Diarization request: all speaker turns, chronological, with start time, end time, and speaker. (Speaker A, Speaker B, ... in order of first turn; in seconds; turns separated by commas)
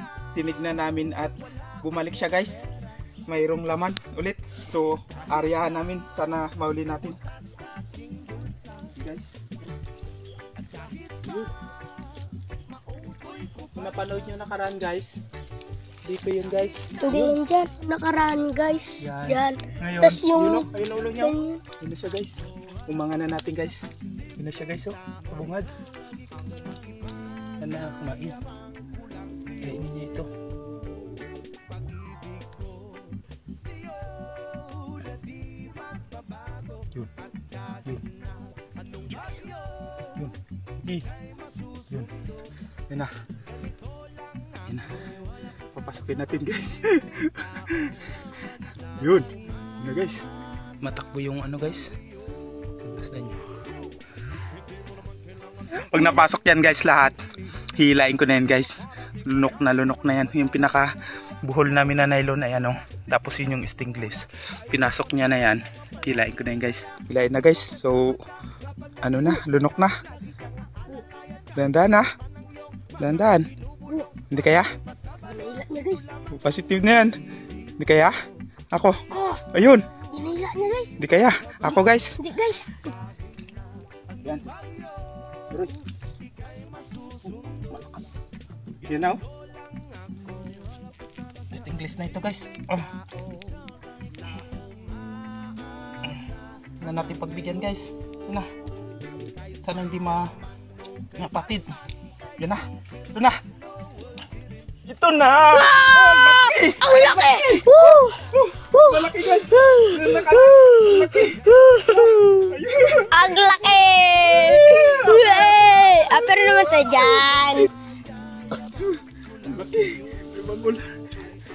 Speaker A: 0.3-2.6, Speaker A: 3.3-7.2, Speaker A: 8.9-9.4, Speaker A: 11.2-11.5, Speaker A: 13.7-15.2, Speaker A: 16.0-17.4, Speaker B: 17.0-20.7, Speaker A: 19.0-23.8, Speaker B: 21.2-21.6, Speaker A: 24.4-25.7, Speaker A: 27.6-28.4, Speaker A: 29.6-30.3, Speaker A: 39.1-39.4, Speaker A: 40.1-41.1, Speaker A: 44.6-44.9, Speaker A: 45.7-47.9, Speaker A: 49.0-50.2, Speaker A: 50.8-51.9, Speaker A: 52.8-53.4, Speaker A: 55.7-57.2, Speaker A: 57.8-60.9, Speaker A: 61.4-68.2, Speaker A: 69.0-69.9, Speaker A: 71.5-72.1, Speaker A: 73.0-73.5, Speaker A: 74.3-74.7, Speaker B: 75.2-76.0, Speaker A: 76.3-77.1, Speaker A: 77.8-78.1, Speaker A: 78.7-79.0, Speaker B: 79.1-79.4, Speaker A: 79.5-79.8, Speaker B: 80.1-81.0, Speaker A: 81.0-82.2, Speaker B: 81.6-82.9, Speaker A: 87.5-88.0, Speaker A: 88.8-89.2, Speaker A: 91.5-92.9, Speaker A: 96.8-98.5, Speaker A: 99.6-100.3, Speaker A: 101.2-101.7, Speaker A: 103.1-103.4, Speaker A: 104.8-113.1, Speaker B: 105.5-108.2, Speaker B: 108.7-112.5, Speaker B: 113.1-117.7, Speaker A: 114.6-115.9, Speaker A: 119.4-120.9